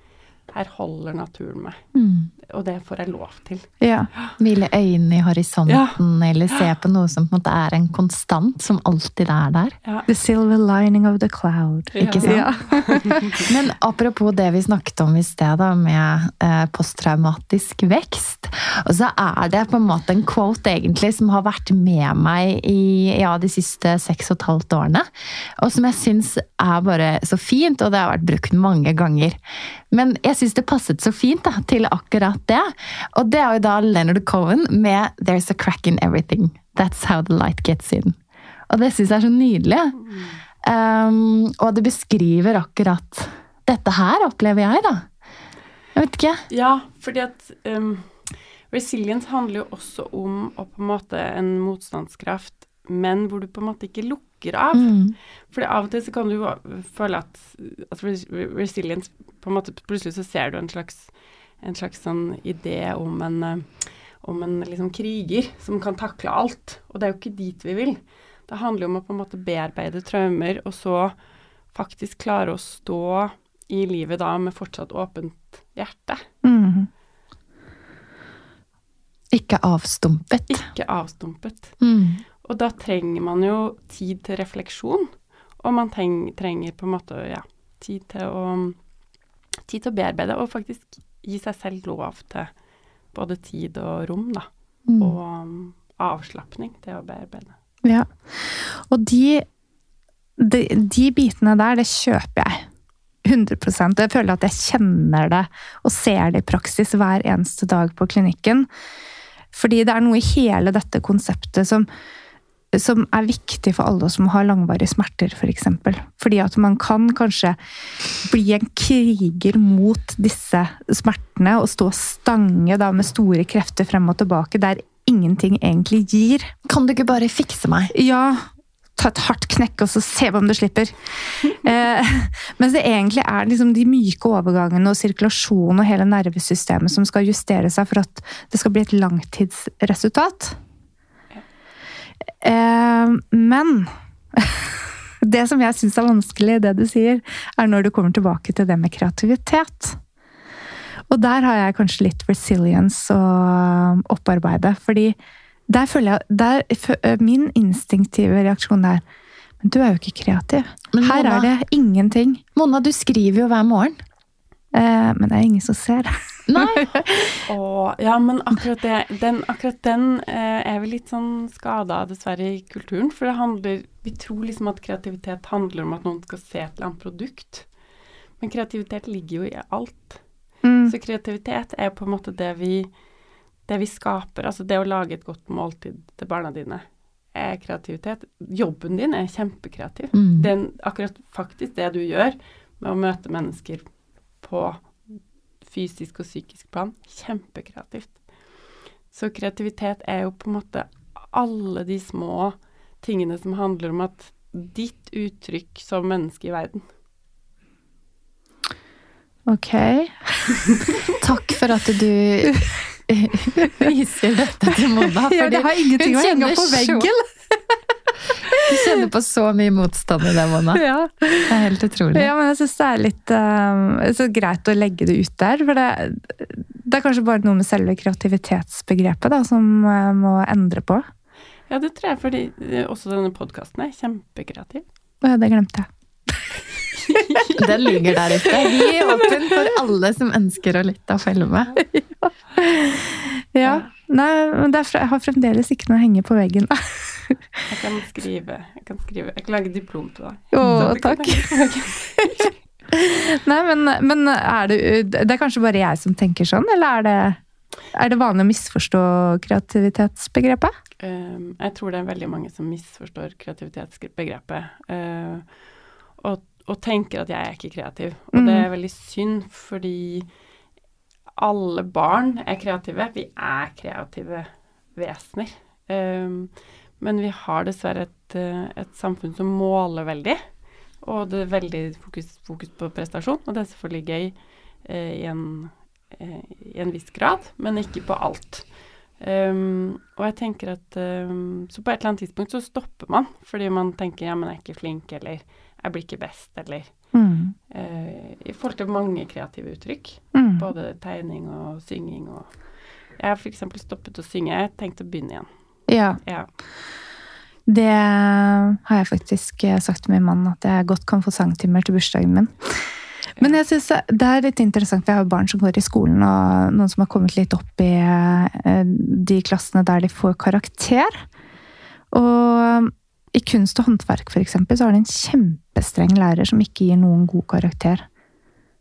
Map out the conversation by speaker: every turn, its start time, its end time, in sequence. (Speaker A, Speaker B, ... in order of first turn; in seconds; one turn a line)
Speaker A: 0.5-1.8
Speaker B: 1.9-2.3
Speaker A: 2.4-4.3
Speaker C: 3.8-4.1
Speaker B: 4.4-9.7
Speaker A: 5.7-6.7
Speaker C: 10.1-13.4
Speaker A: 11.9-13.4
Speaker B: 12.0-12.5
Speaker B: 13.4-29.4
Speaker B: 29.9-38.2
Speaker B: 38.7-40.0
Speaker A: 40.0-40.4
Speaker B: 40.6-45.1
Speaker B: 45.9-46.4
Speaker A: 46.5-55.0
Speaker B: 54.7-55.1
Speaker A: 55.5-71.2
Speaker A: 71.7-76.2
Speaker C: 76.4-76.9
Speaker B: 79.3-80.6
Speaker A: 80.5-81.7
Speaker B: 81.8-82.2
Speaker A: 82.4-88.8
Speaker A: 89.6-92.5
Speaker A: 93.1-94.5
Speaker B: 94.9-95.1
Speaker A: 95.0-97.5
Speaker C: 97.8-99.5
Speaker C: 100.4-102.6
Speaker C: 103.2-108.7
Speaker C: 109.5-111.9
Speaker C: 112.7-117.6
Speaker C: 118.2-126.5
Speaker B: 126.7-127.9
Speaker C: 127.9-140.6
Speaker C: 142.4-150.0
Speaker C: 151.1-155.2
Speaker C: 155.7-159.0
Speaker C: 159.6-162.4
Speaker B: 160.9-161.5
Speaker B: 162.5-164.0
Speaker C: 164.7-167.3
Speaker B: 166.5-166.8
Speaker A: 167.4-177.7
Speaker A: 178.4-180.2
Speaker C: 180.6-180.9
Speaker A: 180.8-182.9
Speaker A: 183.7-193.8
Speaker B: 190.1-190.5
Speaker A: 194.4-198.2
Speaker A: 199.1-206.8
Speaker C: 209.5-211.0
Speaker B: 211.2-217.1
Speaker C: 212.4-212.7
Speaker C: 214.7-217.8
Speaker B: 218.5-220.8
Speaker C: 218.5-218.8
Speaker C: 220.7-221.6
Speaker B: 221.5-222.3
Speaker C: 222.1-231.0
Speaker A: 231.7-234.8
Speaker C: 235.2-236.6
Speaker A: 236.9-239.3
Speaker C: 237.2-237.4
Speaker B: 237.6-241.8
Speaker C: 241.9-247.6
Speaker A: 243.6-243.9
Speaker A: 247.7-252.5
Speaker C: 250.5-251.6
Speaker B: 250.6-250.9
Speaker C: 252.2-257.4
Speaker C: 257.9-260.7
Speaker A: 261.0-265.5
Speaker A: 266.2-270.3
Speaker C: 268.3-268.7
Speaker A: 271.4-280.4
Speaker A: 281.0-288.7
Speaker A: 289.2-297.0
Speaker C: 297.1-297.5
Speaker A: 297.7-302.5
Speaker C: 300.3-300.7
Speaker A: 303.2-305.5
Speaker C: 305.9-306.2
Speaker A: 306.2-306.5
Speaker C: 307.6-312.8
Speaker C: 313.4-321.2
Speaker C: 322.1-328.0